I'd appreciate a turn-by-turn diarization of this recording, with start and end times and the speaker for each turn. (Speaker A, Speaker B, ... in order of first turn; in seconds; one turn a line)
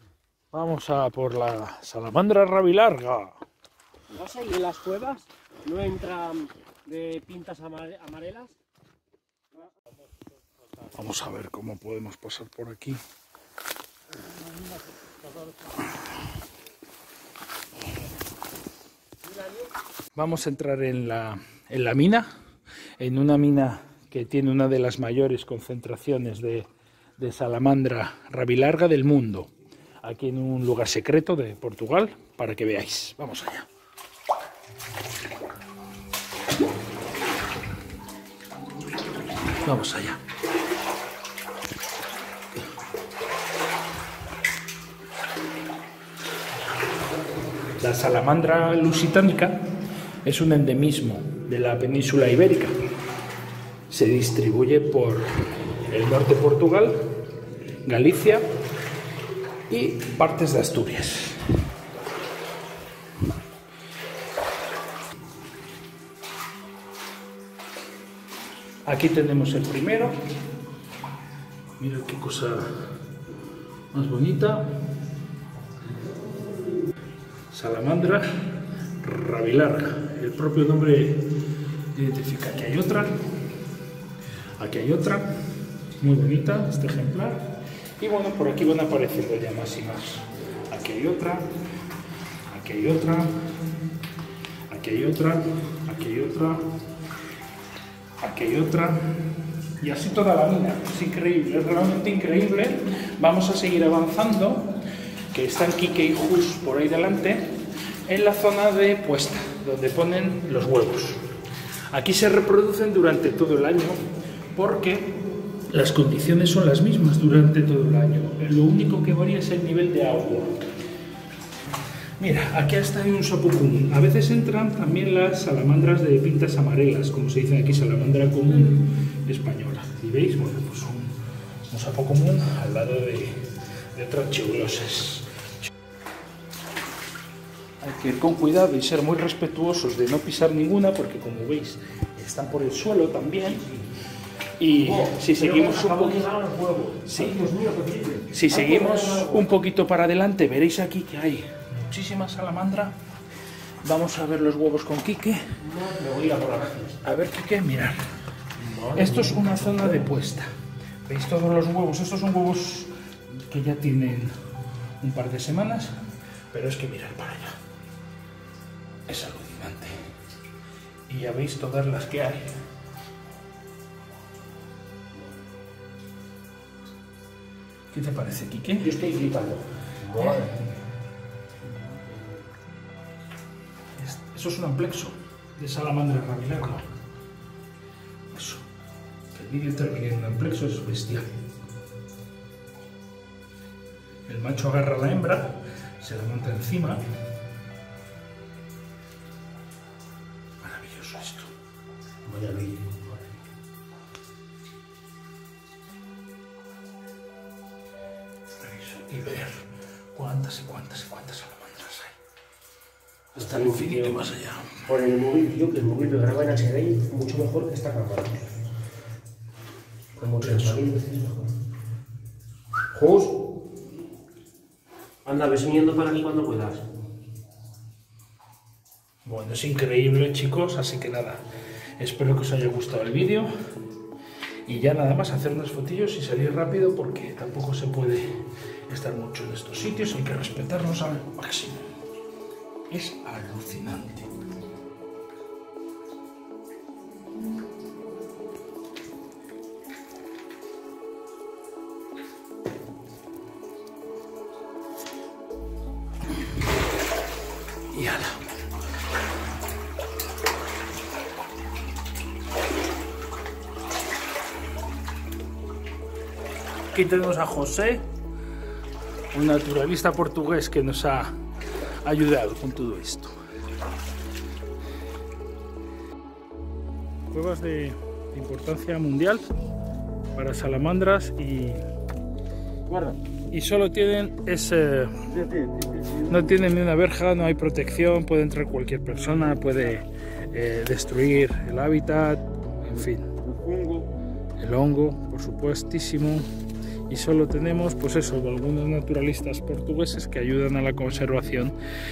Speaker A: 0.5-3.4
Speaker B: 4.1-8.5
Speaker A: 10.9-13.0
Speaker A: 20.1-22.3
Speaker A: 23.0-29.5
Speaker A: 30.0-33.7
Speaker A: 39.5-40.2
Speaker A: 47.8-49.6
Speaker A: 50.2-52.7
Speaker A: 53.9-57.0
Speaker A: 57.8-58.5
Speaker A: 59.7-61.4
Speaker A: 68.8-70.2
Speaker A: 71.8-72.8
Speaker A: 73.9-74.8
Speaker A: 77.5-78.4
Speaker A: 79.0-81.3
Speaker A: 81.9-83.2
Speaker A: 84.6-85.3
Speaker A: 86.0-91.5
Speaker A: 92.5-93.3
Speaker A: 94.7-96.6
Speaker A: 98.2-104.8
Speaker A: 105.3-111.2
Speaker A: 111.9-114.0
Speaker A: 114.5-115.1
Speaker A: 115.7-120.5
Speaker A: 122.2-131.1
Speaker A: 131.7-135.3
Speaker A: 137.8-143.6
Speaker A: 144.6-146.3
Speaker B: 144.7-149.5
Speaker A: 147.0-147.4
Speaker A: 148.3-152.9
Speaker A: 153.8-155.4
Speaker B: 155.6-157.0
Speaker A: 157.0-158.0
Speaker B: 158.6-160.1
Speaker A: 158.9-160.5
Speaker A: 161.1-164.3
Speaker A: 165.0-165.9
Speaker A: 166.5-167.6
Speaker A: 169.1-170.0
Speaker A: 171.1-172.5
Speaker A: 177.9-179.0
Speaker B: 178.8-180.6
Speaker A: 180.1-180.7
Speaker A: 183.9-186.9
Speaker A: 188.3-188.7
Speaker A: 189.3-191.3
Speaker A: 194.3-197.0
Speaker A: 200.6-201.5
Speaker B: 202.2-203.2
Speaker A: 208.6-212.2
Speaker A: 213.3-214.8
Speaker B: 213.4-214.2
Speaker B: 214.8-218.5
Speaker B: 220.2-221.5
Speaker A: 220.2-220.8
Speaker B: 222.9-223.4
Speaker B: 225.2-226.8
Speaker A: 229.2-231.4
Speaker A: 232.0-233.5
Speaker A: 234.7-241.9
Speaker A: 242.9-244.3
Speaker A: 257.9-258.4
Speaker A: 266.9-268.0
Speaker A: 269.3-271.4
Speaker A: 272.0-273.3
Speaker A: 277.3-279.5
Speaker A: 280.3-281.8
Speaker A: 283.5-285.2
Speaker A: 286.1-293.3
Speaker A: 294.6-296.5
Speaker A: 297.1-301.8